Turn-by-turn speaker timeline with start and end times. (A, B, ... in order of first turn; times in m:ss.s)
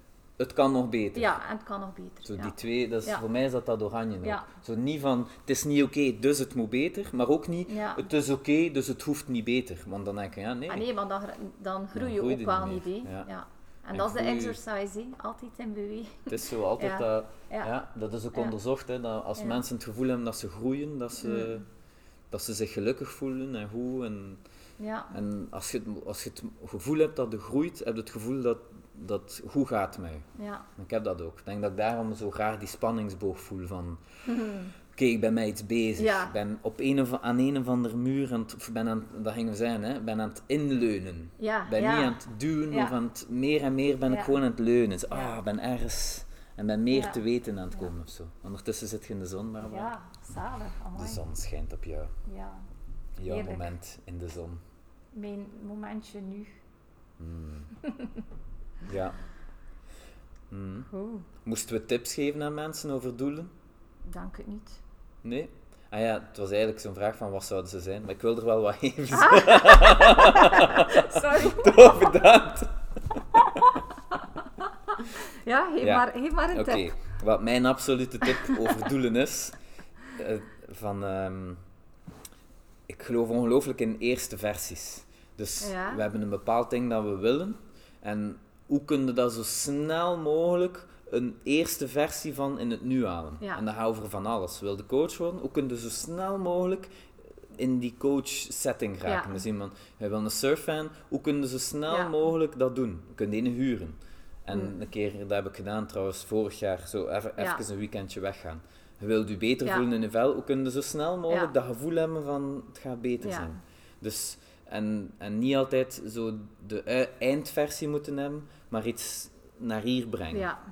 0:00.4-0:01.4 A
0:01.1-0:03.2 B
0:02.3-0:10.9 A
0:04.2-0:04.5 B
0:07.7-0:08.1 B
0:10.7-0:17.7 B
0:11.9-0:13.3 A
0:13.9-0:14.6 A
0:16.3-0:21.6 A
0:21.2-0:21.6 B
0:22.3-0:24.4 A
0:24.8-0:25.2 B
0:25.1-0:34.0 A
0:30.4-0:30.7 B
0:34.3-0:34.7 B
0:35.0-0:49.9 A
0:36.0-0:36.4 B
0:41.4-0:42.9 B
0:44.1-0:44.4 B
0:45.1-0:45.4 B
0:46.9-0:47.2 B
0:49.7-0:51.2 B
0:51.0-0:52.1 A
0:52.3-0:52.7 B
0:53.2-0:54.6 A
0:53.2-0:53.7 B
0:55.1-0:56.5 B
0:57.2-0:57.7 A
0:57.8-0:58.2 B
0:58.8-0:59.2 A
1:00.5-1:00.9 A
1:00.9-1:01.3 B
1:01.4-1:03.5 A
1:04.1-1:04.8 B
1:05.2-1:13.4 A
1:09.1-1:11.8 B
1:13.4-1:16.9 B
1:15.8-1:19.6 A
1:18.3-1:18.8 B
1:20.1-1:21.6 A
1:22.9-1:36.9 A
1:25.6-1:26.0 B
1:37.5-2:00.5 A
1:39.1-1:39.4 B
1:41.9-1:42.1 B
1:47.4-1:47.6 B
1:53.2-1:53.6 B
2:00.3-2:00.6 B